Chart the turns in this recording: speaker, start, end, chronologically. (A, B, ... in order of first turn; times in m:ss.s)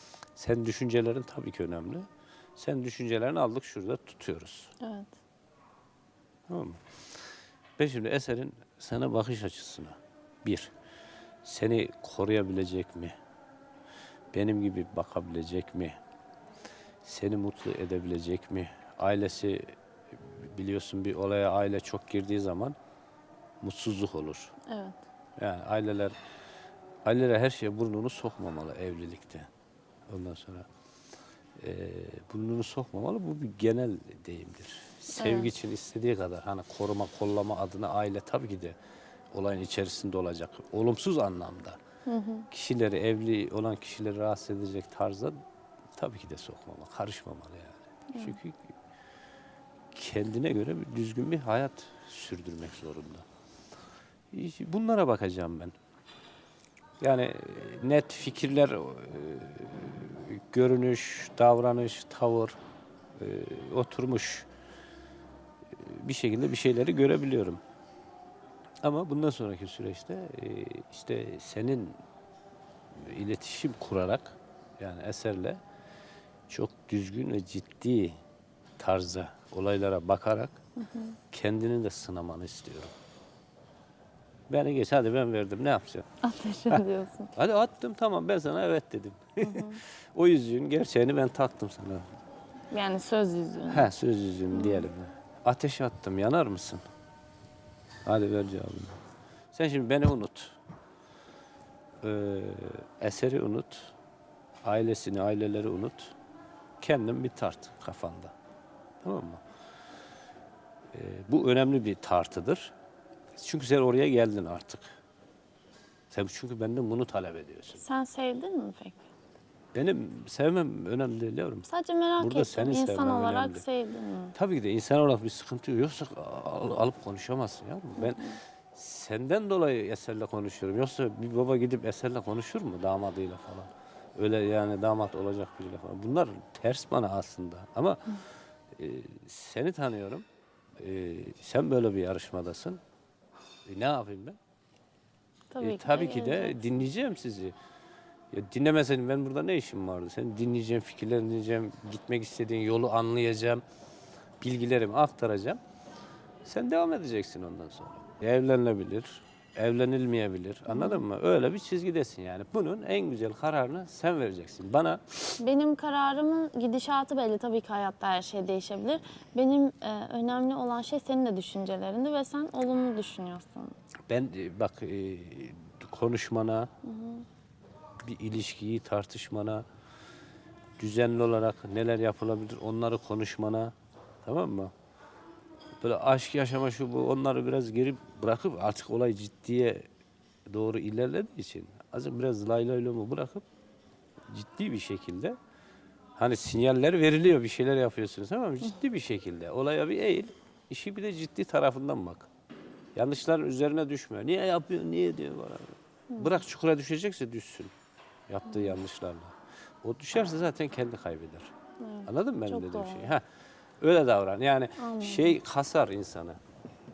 0:00.4-0:02.1 A
0:02.6-0:04.7 A
0:04.8-0:05.1 B
0:06.5-0:06.9 A
0:07.8-0:10.7 A
0:11.4-0:13.2 A
0:14.3-0:16.0 A
0:17.0-0:22.8 A
0:23.6-0:24.5 A
0:24.6-0:25.0 B
0:25.4-0:26.2 A
0:27.0-0:29.5 A
0:30.1-0:30.7 A
0:31.6-0:38.8 A
0:35.1-0:35.5 B
0:39.3-0:41.8 A
0:42.1-0:42.5 B
0:42.5-0:45.4 A
0:46.0-0:48.7 A
0:48.1-0:48.4 B
0:49.9-0:53.2 A
0:54.3-0:55.7 A
0:57.0-1:02.6 A
1:03.2-1:04.5 A
1:05.7-1:07.6 A
1:08.8-1:12.0 A
1:12.9-1:15.6 A
1:16.5-1:18.2 A
1:18.8-1:20.6 A
1:20.8-1:21.1 B
1:21.3-1:22.9 A
1:24.5-1:26.2 A
1:26.2-1:27.3 B
1:27.4-1:32.0 A
1:29.4-1:29.8 B
1:32.7-1:33.9 B
1:33.7-1:36.8 A
1:34.5-1:34.9 B
1:38.0-1:39.0 A
1:39.5-1:40.6 A
1:42.0-1:43.9 A
1:44.6-1:46.1 A
1:46.8-1:48.3 A
1:49.0-1:49.4 A
1:50.9-1:52.7 A
1:53.3-1:54.9 A
1:56.1-1:57.8 A
1:57.8-1:59.0 B
1:59.7-2:01.6 A
2:01.6-2:04.3 B
2:02.2-2:03.6 A
2:04.3-2:18.2 A
2:08.0-2:08.4 B
2:18.7-2:20.2 A
2:20.8-2:22.8 A
2:23.6-2:24.4 A
2:25.5-2:26.8 B
2:25.6-2:27.5 A
2:28.3-2:33.6 A
2:34.4-2:35.6 A
2:36.4-2:45.4 A
2:40.7-2:41.0 B
2:45.4-2:53.7 B
2:54.1-2:56.7 A
2:56.8-2:57.2 B
2:58.0-2:59.6 A
3:00.8-3:04.7 A
3:05.8-3:09.9 A
3:10.5-3:13.4 A
3:14.3-3:15.4 A
3:16.2-3:22.3 A
3:22.9-3:27.7 A
3:28.3-3:31.5 A
3:31.8-3:33.1 B
3:32.0-3:33.2 A
3:33.8-3:36.4 A
3:34.8-3:35.4 B